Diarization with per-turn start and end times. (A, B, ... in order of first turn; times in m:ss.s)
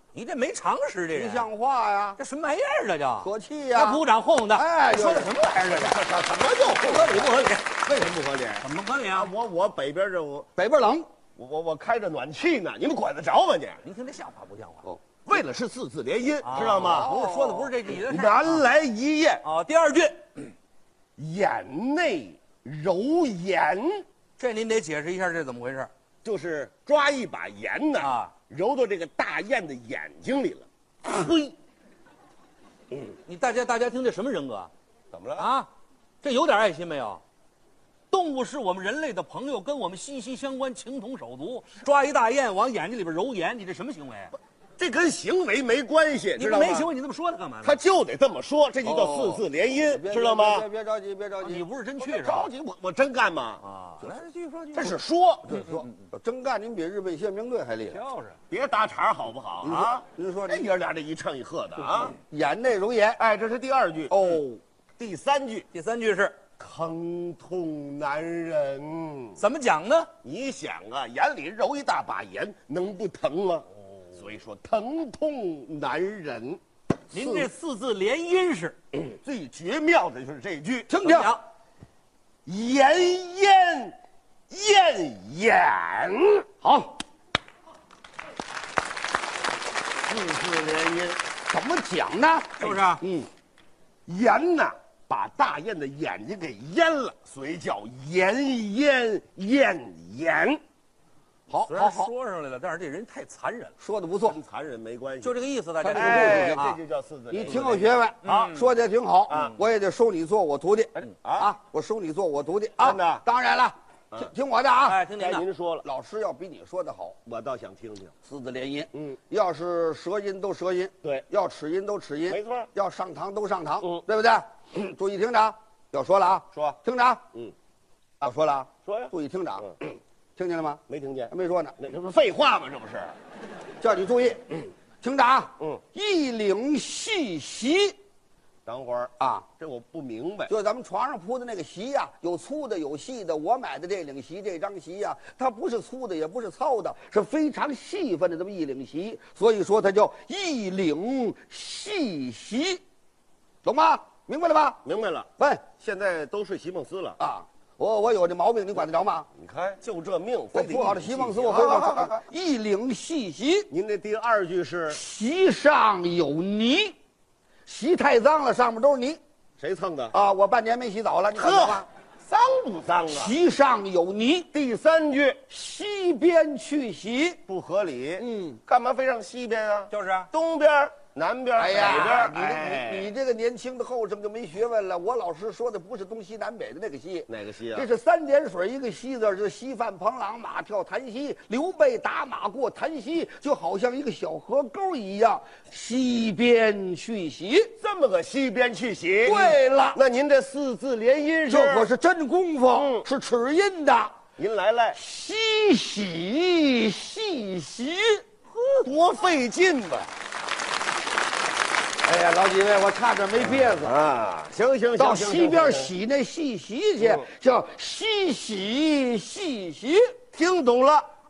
0:00.1-0:01.5 A
0:01.1-0:02.2 B
0:02.2-0:05.8 A
0:03.2-0:06.0 B
0:05.6-0:10.5 C
0:06.8-0:07.6 A
0:06.9-0:07.2 B
0:08.6-0:09.3 A
0:10.6-0:11.0 B
0:11.4-0:13.8 C
0:13.8-0:14.8 A
0:15.2-0:17.2 C
0:16.4-0:18.6 A
0:16.7-0:17.7 B
0:18.1-0:19.4 C
0:19.4-0:20.5 A
0:21.2-0:24.0 C
0:24.4-0:25.9 A
0:26.2-0:30.6 C
0:28.0-0:28.3 A
0:31.0-0:31.6 A
0:33.2-0:34.7 A
0:35.1-0:35.5 C
0:35.4-0:35.7 A
0:36.2-0:37.2 A
0:38.1-0:44.3 A
0:44.8-0:46.9 C
0:46.4-0:47.8 A
0:47.6-0:50.7 C
0:48.8-0:51.6 B
0:51.4-0:52.5 A
0:52.0-0:53.6 C
0:53.6-0:55.0 A
0:54.7-0:55.6 C
0:55.5-0:58.0 B
0:55.5-0:56.1 A
0:57.9-0:58.4 A
0:58.5-1:02.2 C
0:59.6-1:00.7 B
1:02.0-1:03.2 B
1:03.2-1:04.4 C
1:04.1-1:04.6 B
1:05.0-1:05.7 C
1:05.7-1:06.4 A
1:06.6-1:09.4 C
1:09.4-1:10.1 A
1:10.2-1:16.6 C
1:17.1-1:18.8 A
1:17.2-1:17.5 B
1:19.2-1:20.9 C
1:20.9-1:21.4 B
1:21.0-1:21.4 A
1:22.4-1:24.0 C
1:24.5-1:26.5 C
1:26.6-1:27.0 B
1:30.1-1:31.2 C
1:31.5-1:33.3 B
1:32.6-1:33.0 A
1:34.1-1:40.6 C
1:41.5-1:42.1 B
1:41.7-1:43.7 A
1:43.8-1:44.4 B
1:44.2-1:45.3 C
1:45.2-1:46.8 A
1:45.8-1:46.6 B
1:45.9-1:48.5 C
1:47.3-1:55.0 B
1:47.4-1:48.7 A
1:49.3-1:49.6 C
1:49.3-1:49.6 A
1:51.0-1:51.5 C
1:52.8-1:53.2 C
1:54.8-1:55.4 A
1:55.1-1:55.8 C
1:55.8-1:57.2 B
1:57.2-1:58.1 C
1:58.2-2:07.2 B
2:02.3-2:02.7 C
2:06.5-2:06.8 C
2:08.2-2:11.8 B
2:08.8-2:09.1 C
2:10.9-2:13.2 C
2:13.8-2:18.0 B
2:18.6-2:20.5 C
2:19.2-2:19.5 B
2:20.5-2:32.8 B
2:33.6-2:34.8 B
2:34.8-2:37.2 C
2:35.4-2:35.6 B
2:37.2-2:39.3 B
2:39.3-2:42.2 C
2:40.5-2:43.7 B
2:43.7-2:45.0 C
2:44.9-2:47.0 B
2:47.6-2:49.2 B
2:49.6-2:50.2 C
2:50.1-2:51.9 B
2:51.3-2:53.4 C
2:53.1-2:54.5 B
2:54.5-2:55.4 C
2:55.5-2:57.4 B
2:57.5-3:03.1 C
2:58.2-2:58.5 B
2:59.9-3:00.3 A
3:01.6-3:17.7 B
3:01.8-3:02.3 A
3:07.3-3:07.9 C
3:17.8-3:21.9 C
3:19.2-3:20.0 B
3:21.5-3:24.2 B
3:22.7-3:23.0 C
3:24.4-3:25.0 C
3:24.9-3:28.2 B
3:28.8-3:30.1 C
3:32.0-3:34.0 B
3:33.4-3:35.9 C
3:35.0-3:40.1 B
3:37.0-3:37.2 C
3:40.3-3:41.1 C